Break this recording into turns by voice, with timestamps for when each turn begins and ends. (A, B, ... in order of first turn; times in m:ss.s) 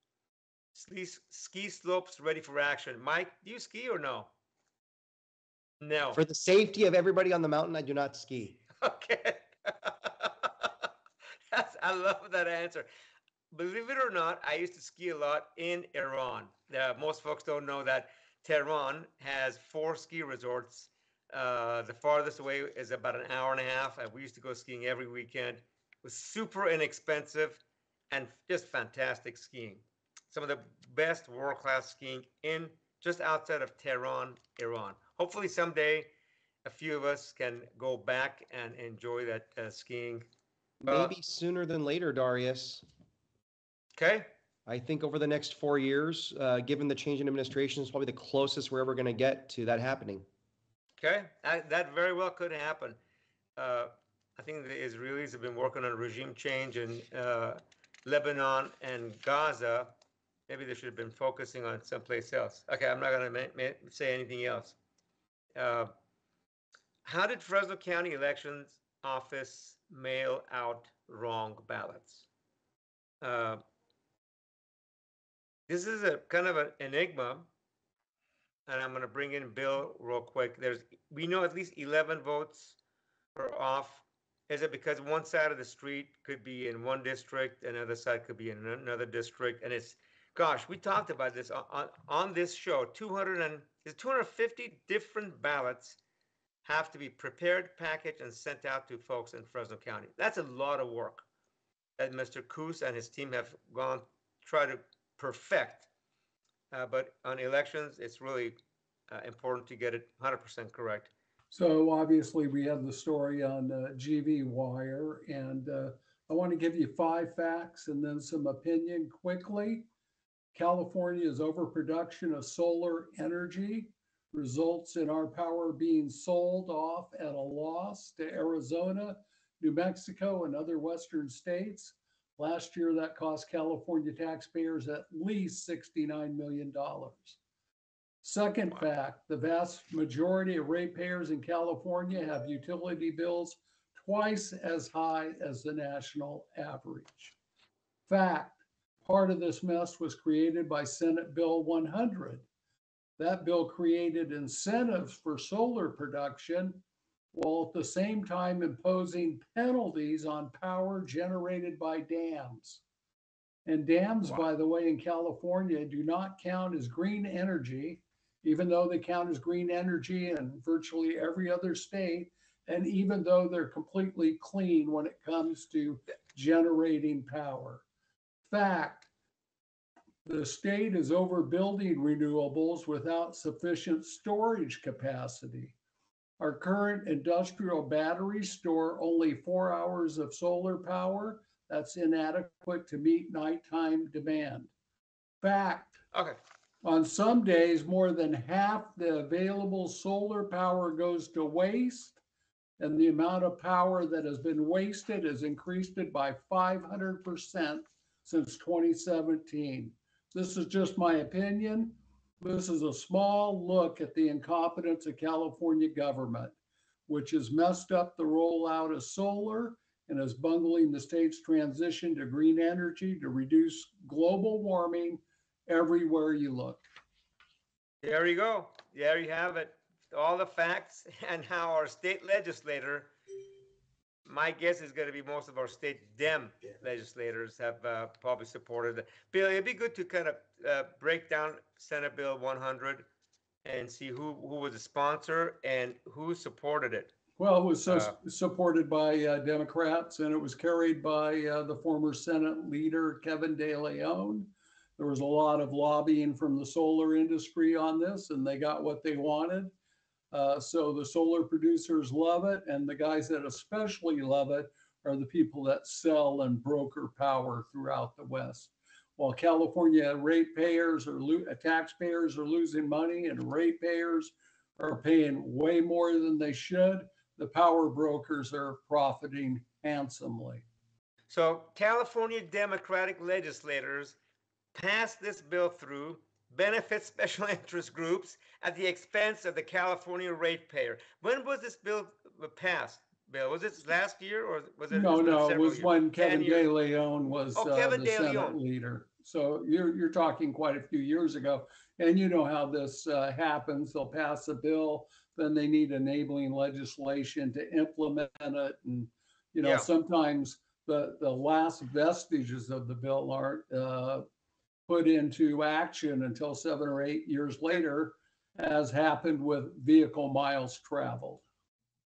0:00.7-0:04.3 A
0:05.8-0:06.2 A
0:06.1-0:08.6 B
0:08.8-0:10.7 A
0:11.5-0:12.9 A
0:13.5-0:36.1 A
0:36.6-0:40.3 A
0:40.8-0:42.8 B
0:40.9-0:41.2 A
0:44.0-0:44.3 A
0:44.7-0:50.3 B
0:51.0-0:53.0 A
0:53.6-0:59.9 A
1:00.5-1:04.8 A
1:05.6-1:05.9 A
1:07.0-1:12.3 A
1:13.2-1:13.6 A
1:15.7-1:17.5 A
1:18.7-1:22.8 A
1:23.4-1:36.0 A
1:36.6-1:41.3 A
1:42.0-1:45.9 A
1:46.7-1:48.5 A
1:49.1-1:51.1 A
1:51.5-1:59.9 C
2:00.5-2:17.4 C
2:18.2-2:27.4 C
2:28.1-2:32.5 C
2:33.2-2:36.8 C
2:37.3-2:42.8 C
2:43.7-2:57.8 C
2:58.5-2:59.1 C
3:00.2-3:05.8 C
3:06.4-3:14.7 C
3:15.4-3:16.0 C
3:16.8-3:22.2 C
3:22.8-3:36.6 C
3:37.1-3:46.9 C
3:48.0-3:53.1 A
3:54.3-4:03.1 A
4:03.6-4:07.1 A
4:07.4-4:19.7 C
4:07.9-4:08.2 A
4:20.3-4:40.6 C
4:41.3-4:44.2 A
4:44.8-4:56.7 A
4:54.9-5:14.2 C
4:57.6-4:58.6 A
5:09.6-5:09.9 A
5:14.9-5:21.4 C